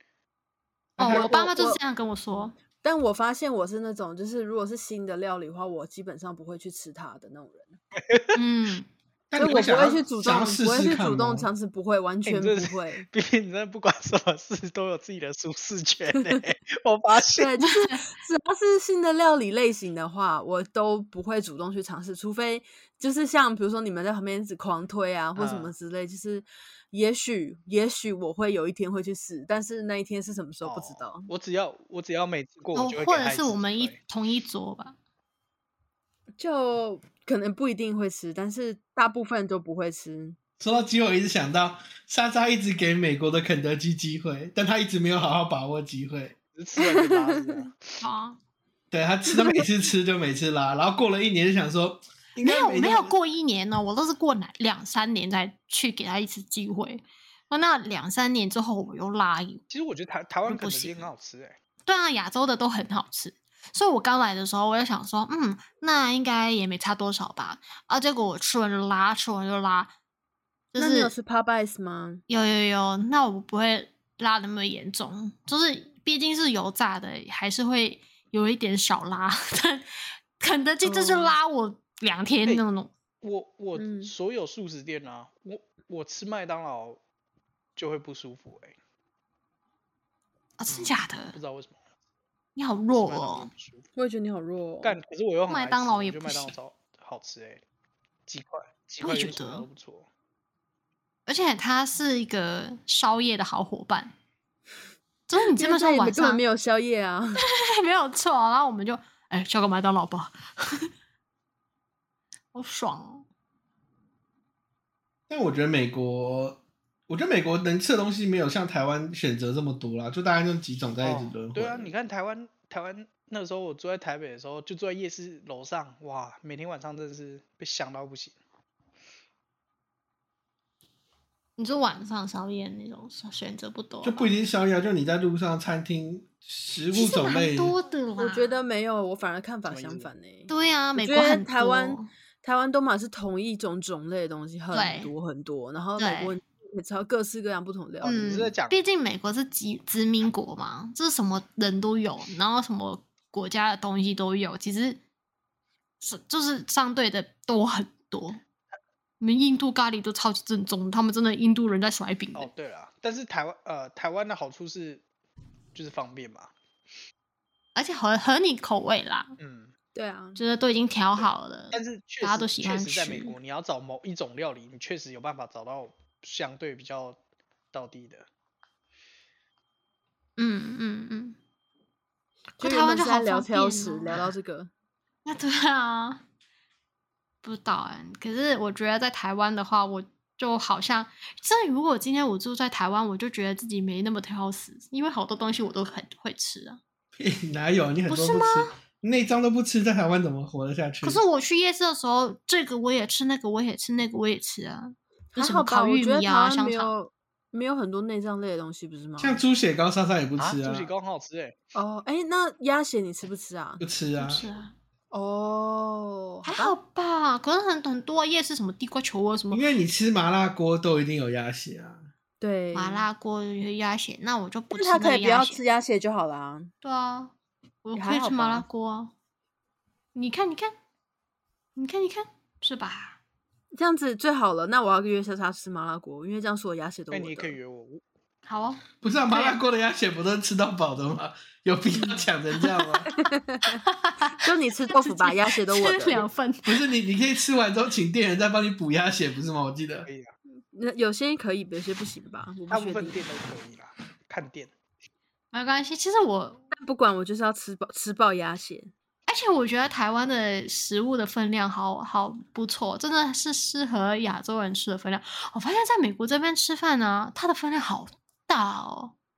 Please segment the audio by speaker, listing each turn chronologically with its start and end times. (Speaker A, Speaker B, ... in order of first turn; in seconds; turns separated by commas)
Speaker A: 1.0-1.8, Speaker B: 1.0-2.6, Speaker A: 2.7-7.8, Speaker C: 8.0-8.3, Speaker B: 8.3-8.9, Speaker D: 9.3-11.5, Speaker A: 9.4-13.1, Speaker C: 12.2-17.5, Speaker A: 17.3-31.3, Speaker B: 17.6-18.1, Speaker C: 25.4-25.7, Speaker C: 30.6-34.0, Speaker B: 32.8-35.0, Speaker A: 36.4-40.4, Speaker D: 40.6-46.4, Speaker C: 46.5-48.0, Speaker A: 46.8-47.7, Speaker B: 48.0-48.4, Speaker D: 48.9-53.1, Speaker A: 49.3-49.7, Speaker B: 52.4-59.6, Speaker C: 59.7-61.6, Speaker B: 60.5-61.1, Speaker B: 61.9-69.9, Speaker B: 70.7-71.1, Speaker A: 70.8-72.2, Speaker B: 72.3-79.9, Speaker B: 80.4-82.9, Speaker A: 80.8-81.3, Speaker C: 83.2-87.0, Speaker A: 83.8-84.1, Speaker C: 87.8-88.8, Speaker B: 90.6-91.4, Speaker C: 90.7-91.8, Speaker B: 92.6-93.5, Speaker C: 92.9-93.9, Speaker A: 94.0-95.0, Speaker C: 94.8-97.6, Speaker B: 95.5-96.5, Speaker C: 98.3-100.1, Speaker B: 99.0-99.7, Speaker B: 101.2-104.1, Speaker B: 105.3-106.4, Speaker A: 105.5-107.4, Speaker B: 107.3-110.9, Speaker B: 112.5-113.2, Speaker D: 115.3-121.9, Speaker C: 121.0-128.4, Speaker B: 131.6-134.3, Speaker D: 134.0-137.8, Speaker B: 136.9-138.6, Speaker A: 138.2-148.3, Speaker C: 139.7-140.1, Speaker B: 140.5-142.1, Speaker B: 144.7-145.1, Speaker B: 146.0-146.4, Speaker C: 148.0-148.8, Speaker B: 148.0-155.0, Speaker B: 156.0-158.4, Speaker B: 159.2-162.5, Speaker C: 162.3-165.0, Speaker C: 165.7-166.5, Speaker B: 167.8-169.3, Speaker C: 169.4-169.7, Speaker A: 169.9-170.4, Speaker B: 170.4-173.3, Speaker C: 171.2-177.2, Speaker C: 177.7-178.3, Speaker B: 180.4-181.4, Speaker B: 182.6-184.3, Speaker A: 182.6-184.7, Speaker B: 185.2-186.2, Speaker B: 187.4-196.8, Speaker D: 197.1-201.2, Speaker B: 198.1-198.7, Speaker B: 201.0-206.9, Speaker A: 205.3-209.4, Speaker D: 209.2-210.9, Speaker C: 210.4-211.6, Speaker A: 211.8-213.8, Speaker D: 213.8-214.4, Speaker B: 214.2-214.7, Speaker A: 215.1-216.8, Speaker B: 216.4-219.6, Speaker D: 219.5-222.1, Speaker A: 222.4-223.1, Speaker B: 222.7-225.6, Speaker A: 224.7-226.7, Speaker B: 226.8-229.1, Speaker A: 227.9-228.7, Speaker B: 230.1-230.7, Speaker B: 231.8-233.2, Speaker A: 233.7-237.6, Speaker C: 237.1-238.0, Speaker B: 238.5-239.6, Speaker D: 239.0-243.1, Speaker A: 241.9-242.3, Speaker A: 243.1-243.8, Speaker B: 243.8-246.8, Speaker A: 244.4-246.3, Speaker D: 246.7-250.1, Speaker C: 250.0-250.3, Speaker A: 250.7-253.2, Speaker C: 252.7-254.7, Speaker B: 255.5-256.6, Speaker A: 256.7-258.9, Speaker B: 259.3-269.1